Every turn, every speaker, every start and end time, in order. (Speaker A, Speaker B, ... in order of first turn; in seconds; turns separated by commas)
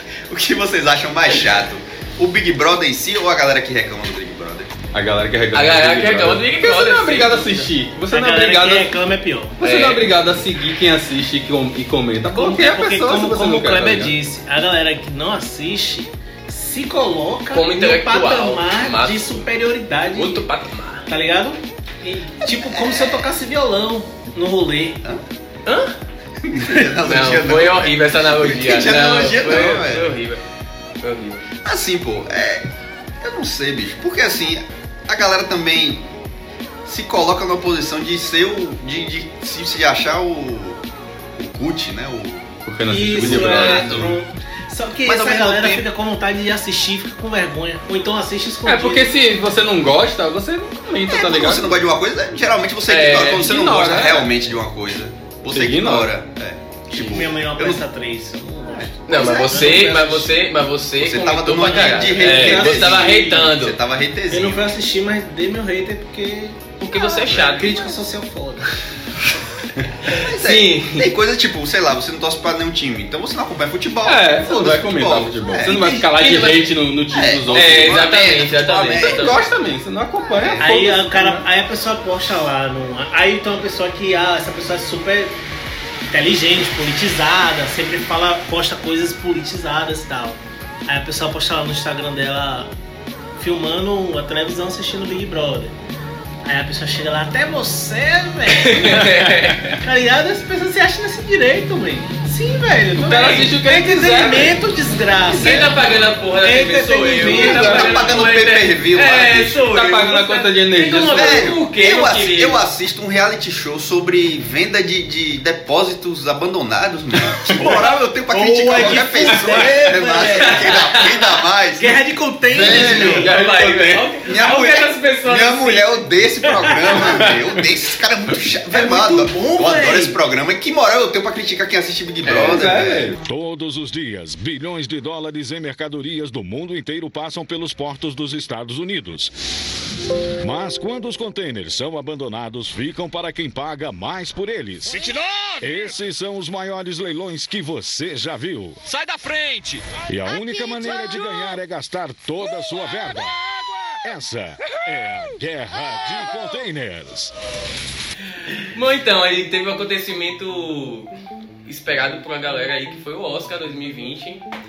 Speaker A: 0.3-4.8, Speaker B: 4.9-8.9, Speaker C: 5.5-7.7, Speaker D: 8.1-9.6, Speaker B: 9.6-14.2, Speaker C: 9.6-10.1, Speaker D: 12.3-20.5, Speaker C: 17.5-19.5, Speaker C: 20.1-21.1, Speaker D: 21.1-25.0, Speaker A: 22.4-23.3, Speaker C: 25.7-26.0, Speaker A: 26.5-30.1, Speaker C: 26.5-30.4, Speaker C: 31.0-31.5, Speaker A: 31.6-32.7, Speaker A: 33.2-36.1, Speaker A: 36.9-40.8, Speaker A: 41.4-42.6, Speaker B: 42.6-44.2, Speaker D: 42.9-49.1, Speaker A: 43.1-44.1, Speaker A: 45.0-45.9, Speaker B: 48.6-51.7, Speaker A: 51.1-57.8, Speaker C: 52.9-53.5, Speaker B: 53.3-54.3, Speaker B: 55.5-56.1, Speaker D: 56.9-60.3, Speaker A: 58.6-60.2, Speaker C: 59.1-63.8, Speaker A: 61.0-64.7, Speaker D: 61.7-63.5, Speaker D: 64.3-68.7, Speaker C: 66.8-68.0, Speaker A: 67.2-67.7, Speaker A: 70.1-75.8, Speaker C: 70.1-71.1, Speaker B: 74.0-78.2, Speaker C: 75.6-76.8, Speaker A: 77.1-79.4, Speaker C: 77.5-79.4, Speaker B: 78.8-81.5, Speaker A: 80.2-80.7, Speaker D: 80.6-85.4, Speaker D: 86.1-92.7, Speaker D: 93.4-95.8, Speaker D: 96.4-105.8, Speaker C: 98.5-99.8, Speaker B: 102.9-104.6, Speaker C: 103.1-103.5, Speaker A: 105.2-105.7, Speaker C: 105.3-112.6, Speaker D: 106.4-108.0, Speaker B: 107.2-108.0, Speaker A: 107.3-109.6, Speaker B: 109.7-111.5, Speaker A: 111.1-123.4, Speaker D: 117.5-121.1, Speaker C: 120.2-121.3, Speaker D: 121.8-123.3, Speaker B: 122.6-124.1, Speaker C: 122.6-126.0, Speaker A: 124.2-133.2, Speaker C: 126.7-127.0, Speaker D: 128.7-130.2, Speaker B: 132.2-133.2, Speaker E: 133.2-139.3, Speaker E: 140.4-153.4, Speaker E: 154.0-157.3, Speaker C: 158.4-161.1, Speaker C: 161.7-164.4